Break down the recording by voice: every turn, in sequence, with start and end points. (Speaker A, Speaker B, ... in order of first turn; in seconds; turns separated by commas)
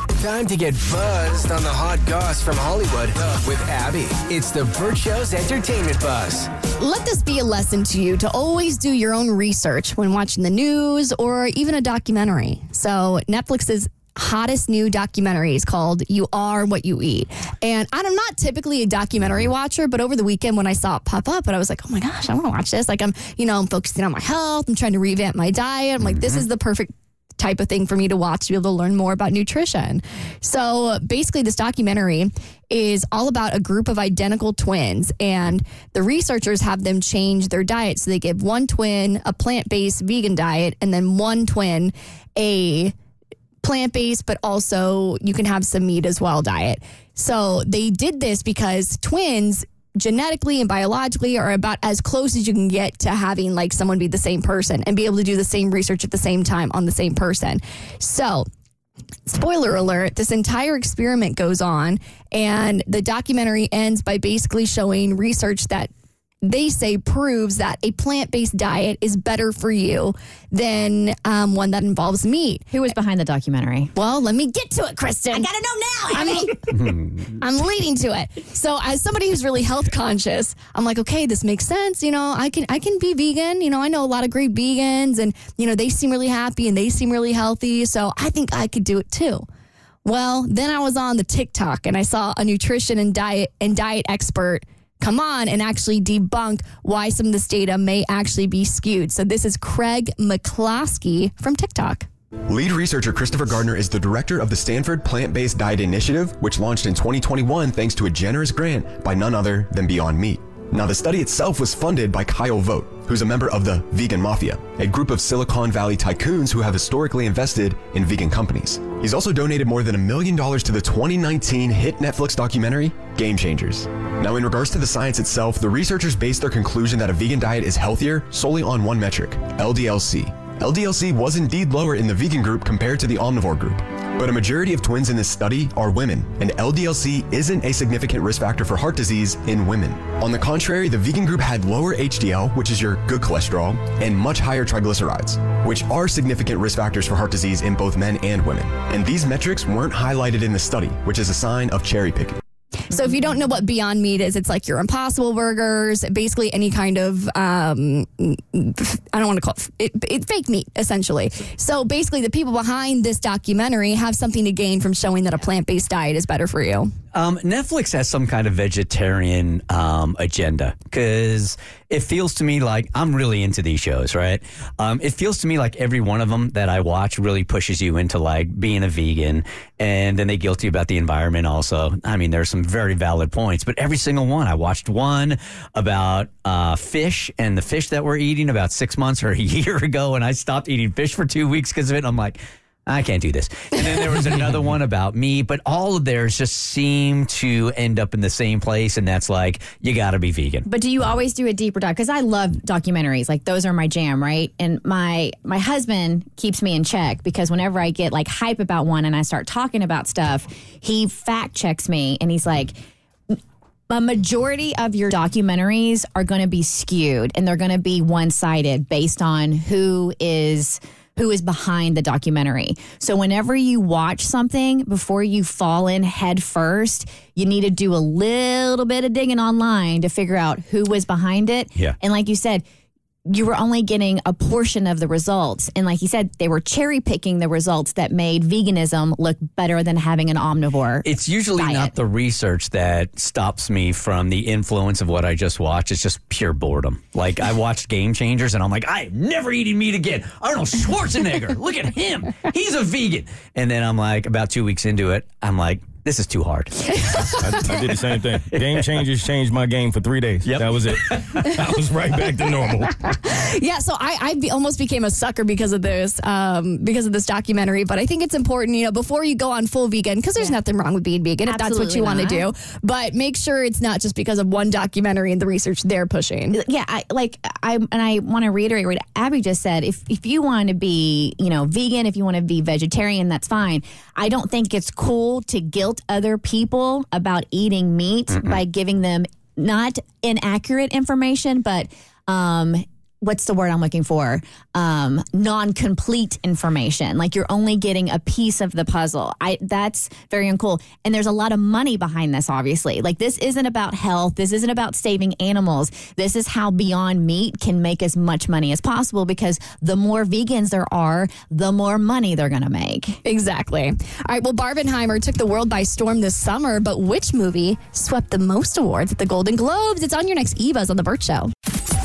Speaker A: 0.2-6.4, Speaker B: 6.8-42.9, Speaker C: 26.0-26.4, Speaker B: 43.6-58.4, Speaker B: 59.3-65.9, Speaker B: 66.4-72.7, Speaker D: 72.7-73.9, Speaker B: 74.0-75.5, Speaker D: 75.3-76.5, Speaker B: 76.1-76.7, Speaker C: 76.7-77.2, Speaker B: 77.3-89.4, Speaker B: 90.0-102.0, Speaker E: 102.5-152.4, Speaker B: 152.9-166.9, Speaker C: 167.1-200.6, Speaker D: 200.6-212.8, Speaker D: 213.9-232.6, Speaker D: 233.2-241.9, Speaker C: 241.0-257.8, Speaker B: 257.1-257.4, Speaker F: 257.3-262.9, Speaker C: 258.5-258.9, Speaker C: 260.4-261.9, Speaker B: 263.0-276.6, Speaker D: 271.4-272.5, Speaker D: 276.5-313.2, Speaker B: 313.2-321.5